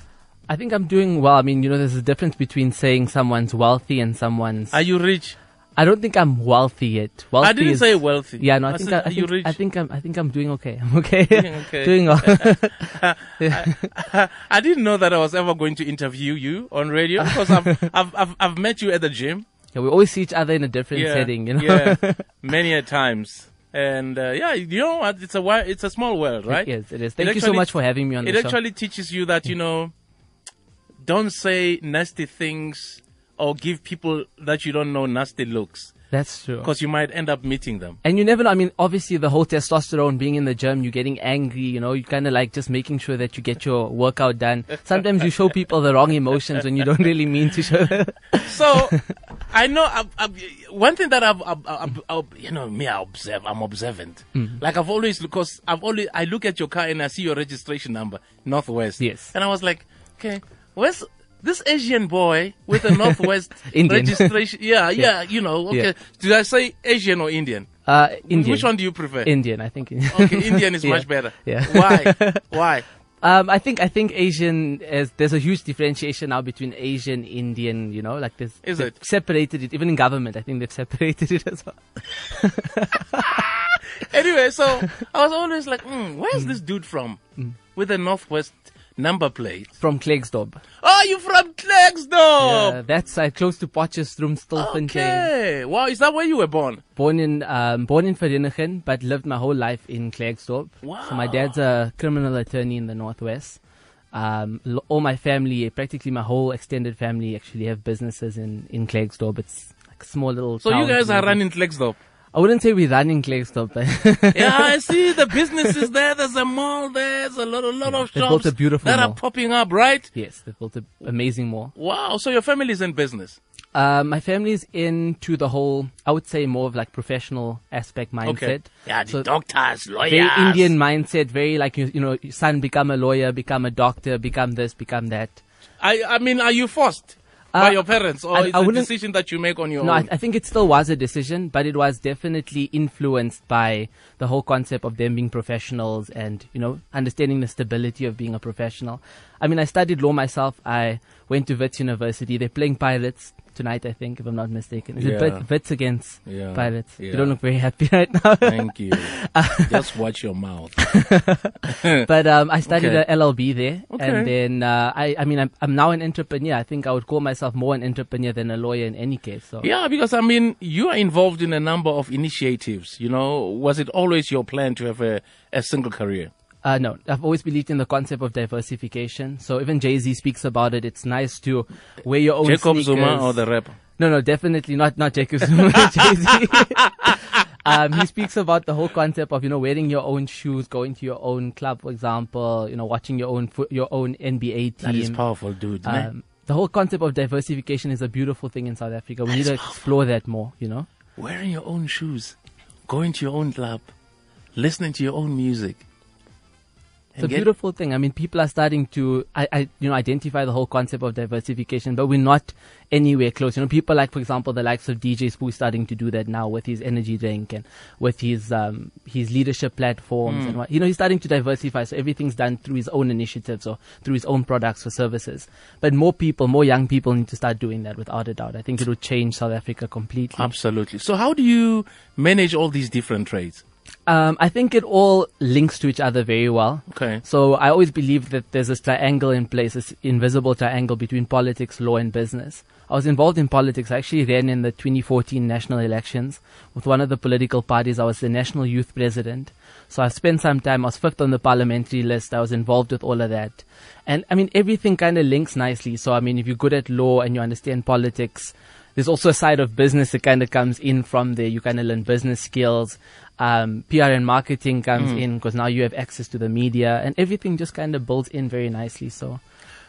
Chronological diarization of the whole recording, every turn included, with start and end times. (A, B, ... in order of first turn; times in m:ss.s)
0:00.5-0:04.8 A
0:04.7-0:05.4 B
0:05.8-0:13.9 A
0:07.4-0:09.6 B
0:11.3-0:19.4 B
0:17.2-0:17.8 A
0:19.8-0:22.3 A
0:20.9-0:26.7 B
0:26.5-0:28.6 A
0:27.2-0:27.7 B
0:28.2-0:29.9 B
0:31.0-0:35.9 B
0:36.1-0:36.7 A
0:36.6-0:38.0 B
0:38.0-0:49.0 A
0:48.4-1:07.7 B
0:59.0-0:59.3 A
1:02.8-1:04.3 A
1:07.9-1:12.5 A
1:08.3-1:09.3 B
1:10.1-1:12.8 B
1:13.2-1:23.5 A
1:18.6-1:19.0 B
1:24.0-1:27.2 B
1:27.8-1:29.7 B
1:29.8-1:30.6 A
1:30.8-1:32.8 B
1:32.4-1:35.3 A
1:34.6-1:36.8 B
1:37.0-1:43.6 A
1:40.8-1:41.6 B
1:44.1-1:51.4 A
1:50.6-1:52.0 B
1:52.3-1:55.8 A
1:54.3-2:00.1 B
1:58.1-1:59.2 A
2:00.1-2:01.7 A
2:01.8-2:03.4 B
2:03.8-2:09.2 A
2:08.2-2:10.7 B
2:10.0-2:15.4 A
2:15.8-2:20.1 B
2:17.5-2:18.9 A
2:19.8-2:39.7 A
2:35.0-2:35.4 B
2:36.2-2:37.3 B
2:38.4-2:40.9 B
2:40.8-2:49.7 A
2:41.7-2:42.0 B
2:42.7-2:43.0 B
2:43.9-2:44.3 B
2:49.6-2:56.3 B
2:56.6-3:03.4 A
3:02.4-3:03.8 B
3:04.0-3:15.2 A
3:14.8-3:16.1 B
3:15.8-3:20.9 A
3:19.3-3:19.8 B
3:21.2-3:22.4 B
3:22.9-3:23.9 B
3:24.6-3:25.8 B
3:27.2-3:27.5 B
3:27.2-3:50.5 A
3:40.2-3:40.6 B
3:50.4-3:53.6 B
3:54.1-4:29.4 A
3:56.9-3:57.2 B
4:25.0-4:25.2 B